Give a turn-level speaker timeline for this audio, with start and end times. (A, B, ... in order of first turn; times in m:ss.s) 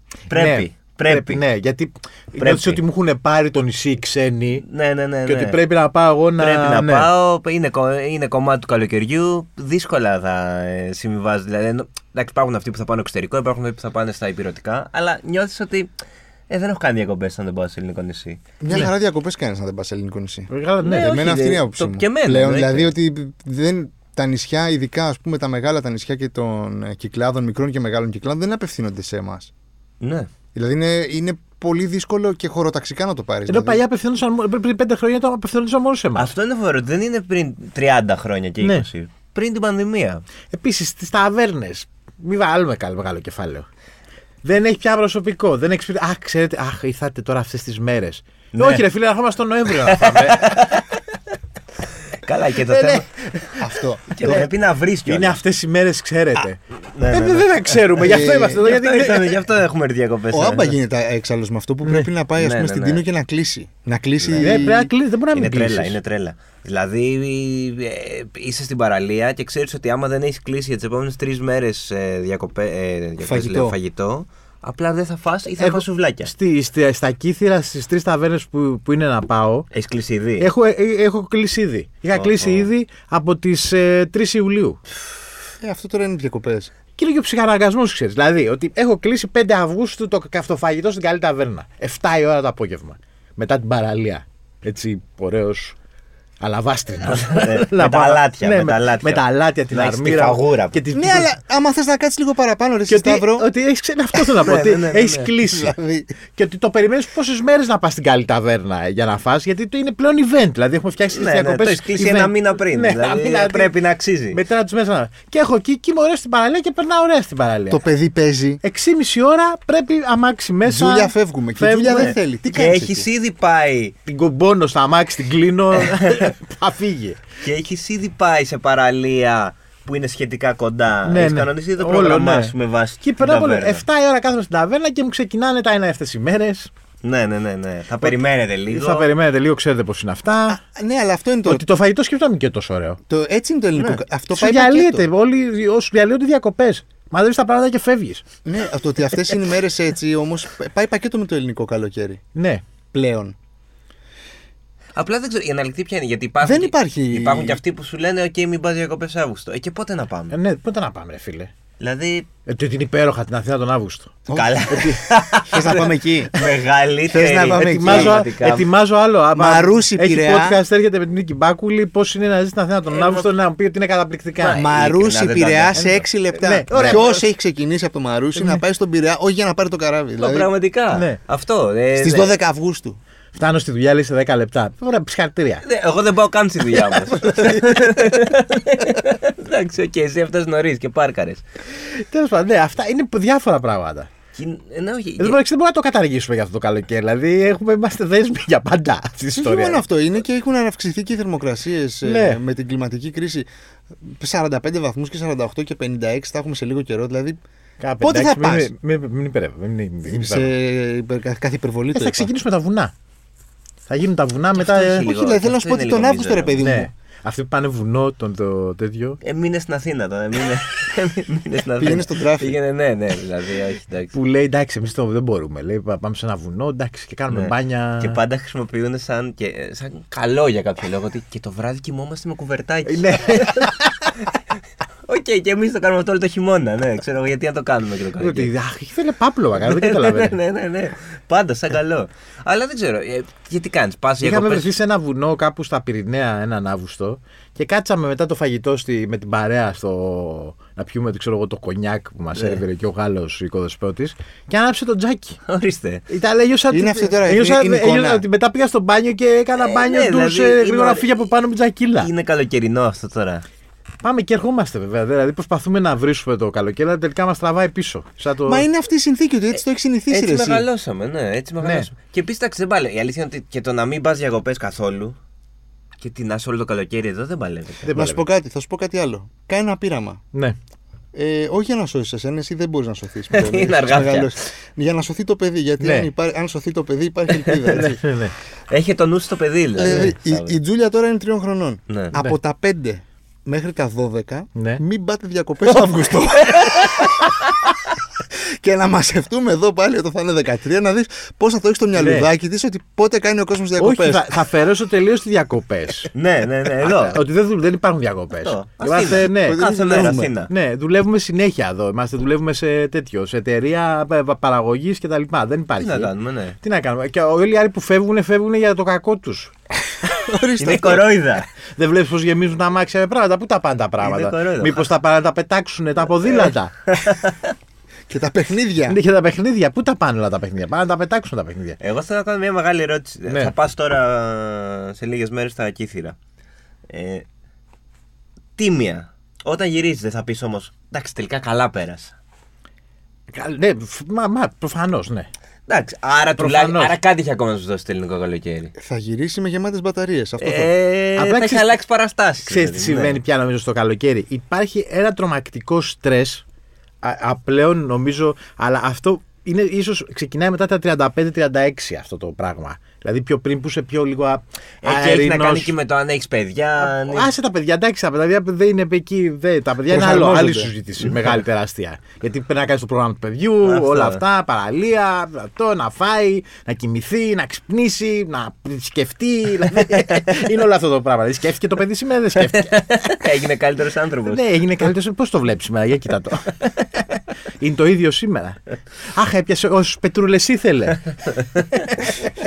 0:00.3-0:01.4 A
0:00.3-0:04.6 B
0:02.4-0:02.8 A
0:04.6-0:05.6 A
0:05.2-0:07.1 B
0:06.4-0:15.9 A
0:16.5-0:18.4 A
0:18.6-0:29.5 C
0:20.5-0:21.2 B
0:20.8-0:22.9 A
0:30.0-0:30.3 A
0:30.5-0:33.8 C
0:33.5-0:36.3 B
0:36.2-0:40.2 A
0:40.5-0:43.6 B
0:44.4-0:50.4 B
0:48.5-0:48.8 A
0:49.8-0:51.0 A
0:52.2-0:53.2 A
0:52.7-0:53.0 B
0:53.6-0:54.5 C
0:54.1-0:55.4 A
0:55.1-0:59.4 B
0:56.9-1:00.7 A
0:58.0-0:58.7 C
1:00.3-1:04.9 C
1:02.4-1:03.0 A
1:04.2-1:04.7 A
1:04.4-1:06.0 B
1:05.3-1:16.3 A
1:13.2-1:13.7 C
1:15.6-1:19.7 B
1:19.7-1:20.5 A
1:20.4-1:24.8 B
1:22.1-1:22.7 A
1:25.6-1:26.7 C
1:27.0-1:35.8 B
1:36.4-1:41.3 B
1:37.1-1:40.8 A
1:40.9-1:43.4 C
1:42.9-1:45.7 B
1:44.4-1:45.4 A
1:45.5-1:46.1 C
1:46.3-1:53.7 B
1:51.1-1:54.4 A
1:54.3-1:57.8 B
1:57.7-1:58.6 C
1:58.6-2:02.1 B
2:00.6-2:03.1 C
2:01.9-2:03.9 A
2:04.0-2:07.2 B
2:05.7-2:06.3 A
2:07.4-2:13.8 A
2:11.0-2:16.7 B
2:17.0-2:19.1 A
2:18.7-2:20.6 B
2:20.5-2:21.6 C
2:21.4-2:23.0 B
2:23.1-2:25.1 C
2:24.3-2:28.2 B
2:28.4-2:32.2 C
2:32.3-2:32.6 B
2:32.9-2:33.3 C
2:34.9-2:40.4 A
2:36.4-2:37.6 C
2:40.3-2:41.5 B
2:41.8-2:42.3 A
2:42.5-2:44.1 B
2:44.3-2:44.7 C
2:44.3-2:48.7 A
2:44.7-2:45.0 B
2:45.5-2:46.3 C
2:47.1-2:48.2 C
2:47.6-2:54.6 B
2:49.3-2:50.6 C
2:54.4-2:56.1 A
2:54.6-3:00.5 C
2:56.3-2:57.2 B
2:56.7-2:57.1 A
2:58.3-2:58.6 B
3:00.2-3:02.3 A
3:00.9-3:01.2 B
3:01.9-3:03.0 C
3:03.3-3:05.6 B
3:05.6-3:11.4 A
3:07.3-3:07.7 C
3:12.1-3:14.1 B
3:14.4-3:15.4 A
3:15.2-3:19.8 B
3:19.4-3:23.5 C
3:22.0-3:22.4 B
3:24.0-3:27.4 C
3:27.8-3:30.5 B
3:28.0-3:28.7 C
3:30.1-3:32.3 C
3:31.9-3:32.9 B
3:33.9-3:35.1 B
3:34.5-3:36.6 A
3:34.8-3:36.9 C
3:36.6-3:39.2 B
3:39.2-3:44.1 A
3:41.8-3:42.6 C
3:44.1-3:48.2 B
3:47.3-3:53.7 A
3:52.8-3:54.1 B
3:55.1-3:58.5 A
3:58.2-4:00.4 B
3:59.6-4:04.7 A
4:04.2-4:15.4 B
4:12.3-4:12.6 A
4:15.5-4:16.0 A
4:16.1-4:22.1 B
4:16.7-4:18.2 C
4:19.6-4:21.2 A
4:22.0-4:23.4 A
4:24.0-4:28.6 B
4:28.4-4:30.6 C
4:30.1-4:35.2 A
4:31.6-4:31.9 B
4:36.0-4:37.9 A
4:37.8-4:38.2 B
4:37.9-4:40.2 C
4:41.1-4:48.0 C
4:43.3-4:44.3 A
4:45.8-4:46.1 B
4:47.3-4:47.9 A
4:47.7-4:48.3 B
4:48.7-4:50.5 A
4:49.8-4:57.1 C
4:54.6-4:54.8 B
4:55.7-4:57.7 A
4:58.6-5:04.4 C
5:02.0-5:02.3 B
5:03.8-5:06.1 B
5:06.1-5:07.2 A
5:06.8-5:09.6 B
5:08.3-5:10.5 A
5:09.2-5:10.3 C
5:10.5-5:19.5 B
5:15.8-5:16.6 A
5:20.0-5:21.1 C
5:20.6-5:21.5 A
5:21.8-5:26.7 B
5:24.0-5:24.9 A
5:26.9-5:27.4 A
5:28.1-5:29.0 C
5:28.9-5:31.8 B
5:31.8-5:36.2 A
5:33.3-5:33.5 B
5:36.9-5:37.2 A
5:38.6-5:42.1 A
5:43.3-5:45.3 B
5:45.7-5:48.7 A
5:46.4-5:47.0 B
5:48.8-5:50.7 C
5:50.4-5:53.2 A
5:51.2-5:51.7 B
5:52.4-5:56.4 B
5:57.0-6:05.7 B
6:04.8-6:07.3 A
6:06.8-6:22.8 B
6:09.9-6:10.7 C
6:13.6-6:14.2 A
6:19.7-6:20.3 A
6:22.4-6:24.5 A
6:24.3-6:27.1 B
6:27.6-6:28.6 B
6:29.1-6:31.1 B
6:31.8-6:32.2 B